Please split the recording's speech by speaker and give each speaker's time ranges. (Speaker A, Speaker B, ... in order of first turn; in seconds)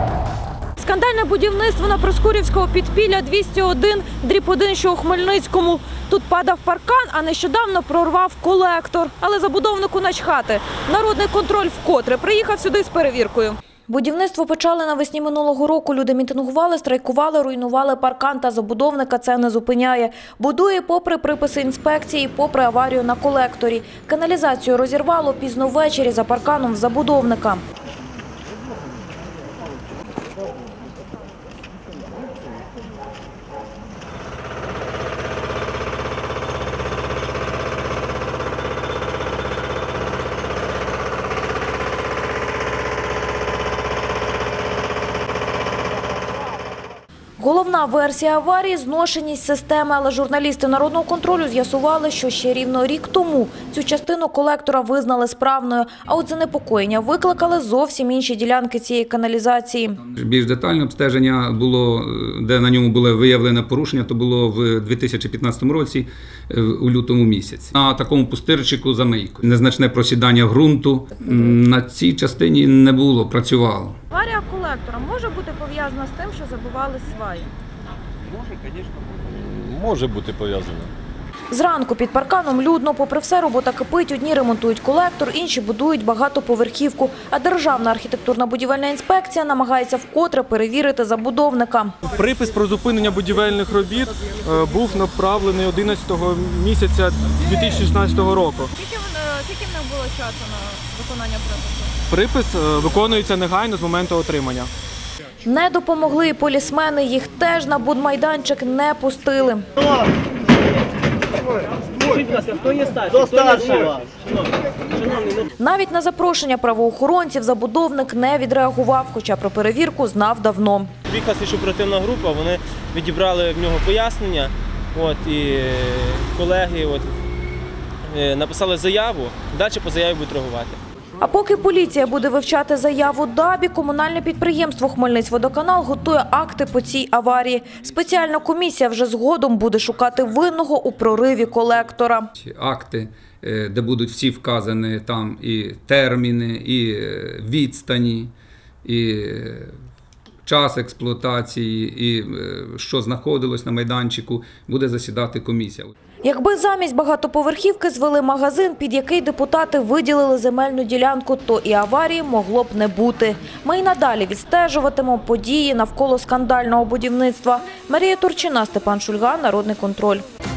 Speaker A: 0.8-27.6, 47.4-60.0, 74.1-77.5, 81.5-92.0, 98.8-101.9, 105.4-109.7, 115.6-120.9, 131.2-142.3, 156.2-170.2
Speaker B: 60.1-74.0, 142.4-148.3, 148.8-149.7, 150.4-155.9
Speaker C: 78.2-80.9
Speaker D: 92.1-98.7, 102.1-104.7
Speaker E: 112.0-114.3, 114.9-115.5, 121.1-127.2, 128.1-130.8